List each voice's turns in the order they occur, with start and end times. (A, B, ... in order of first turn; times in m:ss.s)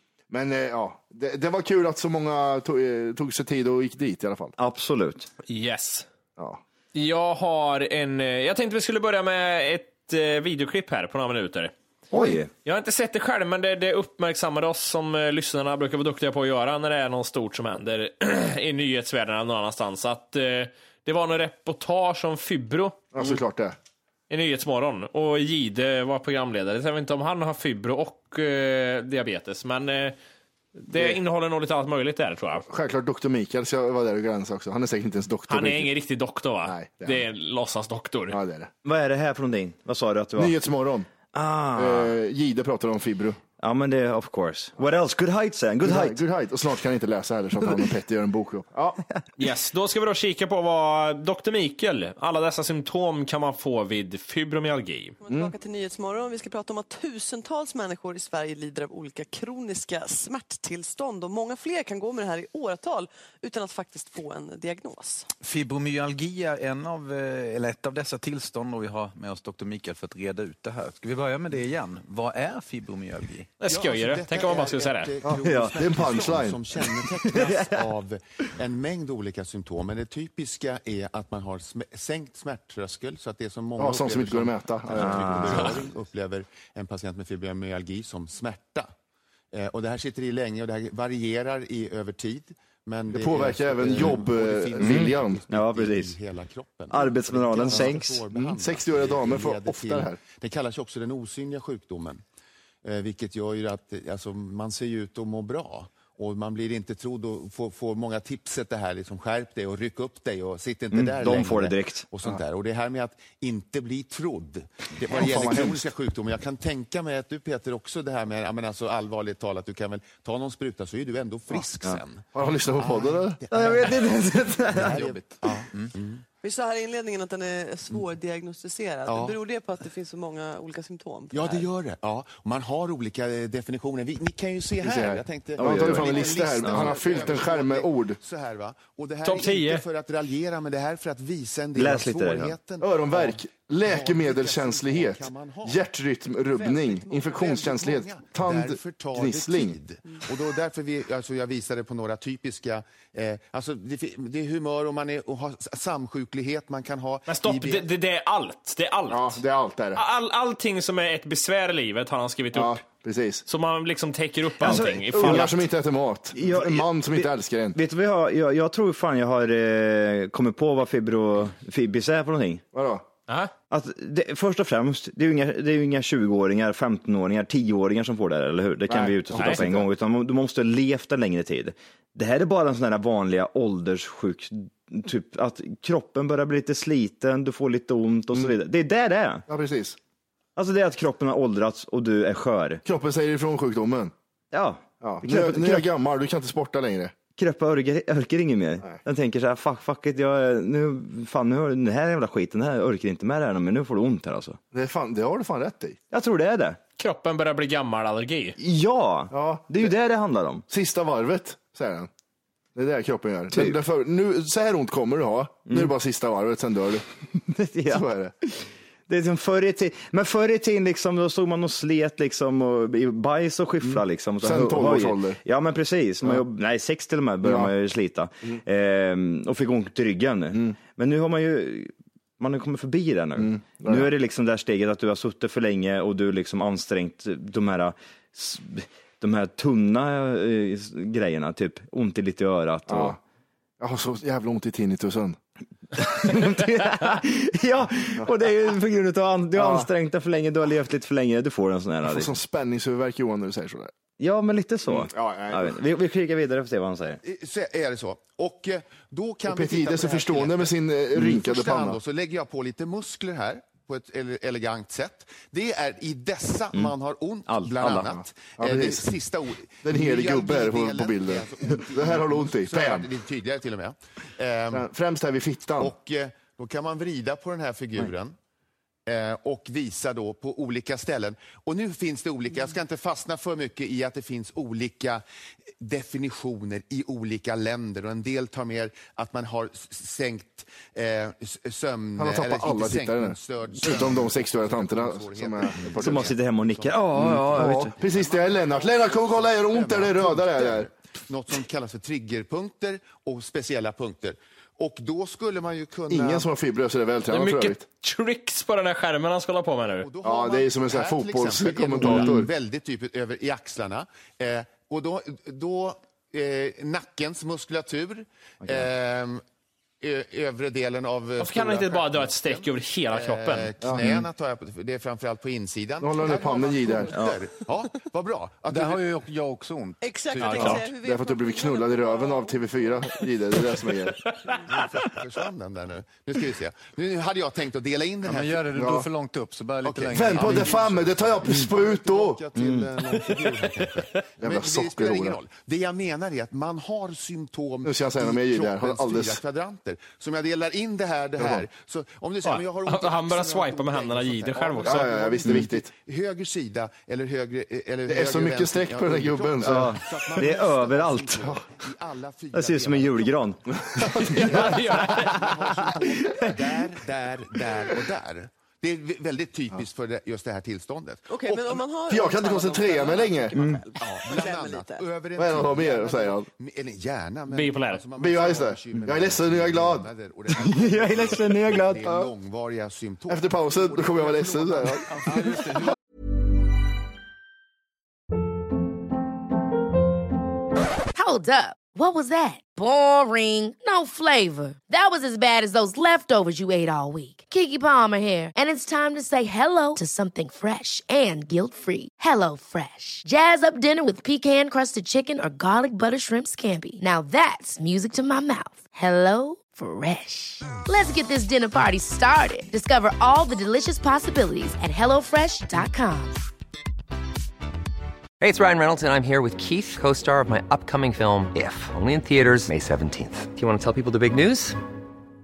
0:00.3-0:04.6 A
0:04.6-0:05.3 B
0:05.5-0:06.1 C
0:06.9-0:23.4 C
0:12.1-0:12.5 B
0:23.1-0:23.8 A
0:24.3-0:30.2 C
0:30.8-0:32.6 C
0:32.7-0:35.9 A
0:35.5-0:38.4 C
0:36.6-0:37.2 A
0:38.3-0:38.7 A
0:38.8-0:40.6 B
0:40.4-0:41.1 A
0:41.3-0:42.2 B
0:41.8-0:43.4 A
0:43.6-0:46.2 B
0:45.8-0:49.0 A
0:49.4-0:55.2 C
0:55.2-1:05.3 D
0:55.3-0:55.5 A
1:05.4-1:13.5 E
1:13.6-1:15.1 C
1:13.7-1:28.9 F
1:15.2-1:16.6 A
1:15.4-1:15.8 B
1:17.3-1:17.8 B
1:23.8-1:25.8 A
1:25.0-1:25.8 B
1:29.5-1:42.2 F
1:33.1-1:35.4 A
1:33.9-1:34.2 B
1:34.8-1:36.2 B
1:36.9-1:38.2 B
1:37.7-1:40.2 A
1:42.8-2:04.1 F
1:50.9-1:52.1 B
1:55.1-1:55.9 A
2:02.3-2:03.4 A
2:03.5-2:05.1 B
2:04.7-2:05.9 E
2:04.7-2:06.2 F
2:06.4-2:11.7 D
2:09.1-2:09.4 F
2:11.3-2:25.9 F
2:14.8-2:18.2 A
2:15.6-2:17.4 B
2:19.2-2:19.8 C
2:21.8-2:22.6 B
2:22.8-2:29.8 A
2:26.5-2:37.9 F
2:37.3-2:39.4 C
2:39.1-2:40.0 A
2:40.0-2:42.8 C
2:42.5-2:43.4 A
2:43.5-2:45.6 C
2:44.6-2:45.5 B
2:44.6-2:47.8 A
2:46.3-2:52.6 B
2:52.7-2:53.0 A
2:53.7-3:09.4 B
2:58.9-2:59.9 A
2:59.3-2:59.6 C
3:09.5-3:10.0 A
3:10.6-3:12.8 B
3:12.8-3:14.1 A
3:14.5-3:15.9 B
3:15.0-3:17.1 A
3:17.4-3:24.6 B
3:24.7-3:26.0 A
3:26.1-3:26.8 B
3:27.0-3:28.6 C
3:28.6-3:30.6 B
3:29.3-3:29.9 A
3:30.7-3:32.1 A
3:32.8-3:37.0 A
3:33.5-3:33.8 B
3:35.7-3:35.9 B
3:37.5-4:03.2 B
3:37.9-3:38.3 A
3:43.8-3:45.4 A
3:47.4-3:47.7 A
3:53.4-3:54.1 A
4:02.9-4:03.2 A
4:03.8-4:05.4 A
4:06.0-4:12.3 B
4:09.6-4:09.9 A
4:12.0-4:13.9 A
4:14.2-4:17.2 B
4:14.9-4:15.8 A
4:17.2-4:34.9 F
4:19.5-4:22.0 A
4:27.5-4:28.1 B
4:28.0-4:29.1 A
4:29.8-4:33.1 A
4:34.7-4:35.9 A
4:35.8-4:38.4 F
4:39.1-4:45.2 F
4:45.8-5:06.5 F
4:52.2-4:56.3 A
4:56.0-4:58.0 B
4:57.1-5:00.9 A
5:06.1-5:07.8 A
5:07.3-5:10.1 C
5:10.0-5:19.4 F
5:10.2-5:12.5 A
5:12.0-5:12.3 B
5:20.0-5:29.0 F
5:21.4-5:23.7 C
5:23.8-5:24.2 A
5:26.0-5:27.1 A
5:27.1-5:27.4 B
5:28.7-5:30.8 E
5:30.0-5:33.2 D
5:30.4-5:30.8 C
5:30.6-5:34.2 A
5:34.7-5:38.7 F
5:38.2-5:40.9 E
5:38.7-5:39.1 A
5:39.8-6:03.4 F
5:40.1-5:42.4 A
5:42.5-5:42.9 B
5:44.4-5:45.4 A
5:47.8-5:49.4 A
5:51.4-5:51.7 A
5:52.4-5:55.3 C
5:54.8-5:55.9 A
5:58.1-6:00.0 A
5:59.6-6:01.6 B
6:02.5-6:06.6 B
6:04.0-6:05.5 C
6:04.4-6:11.9 F
6:11.3-6:15.1 D
6:12.1-6:13.6 A
6:13.6-6:13.8 B
6:14.0-6:25.3 F
6:15.4-6:16.5 A
6:17.5-6:18.0 C
6:18.2-6:20.1 A
6:20.5-6:22.1 B
6:23.3-6:25.6 A
6:25.2-6:25.9 E
6:31.2-6:56.4 G
6:58.4-7:04.8 H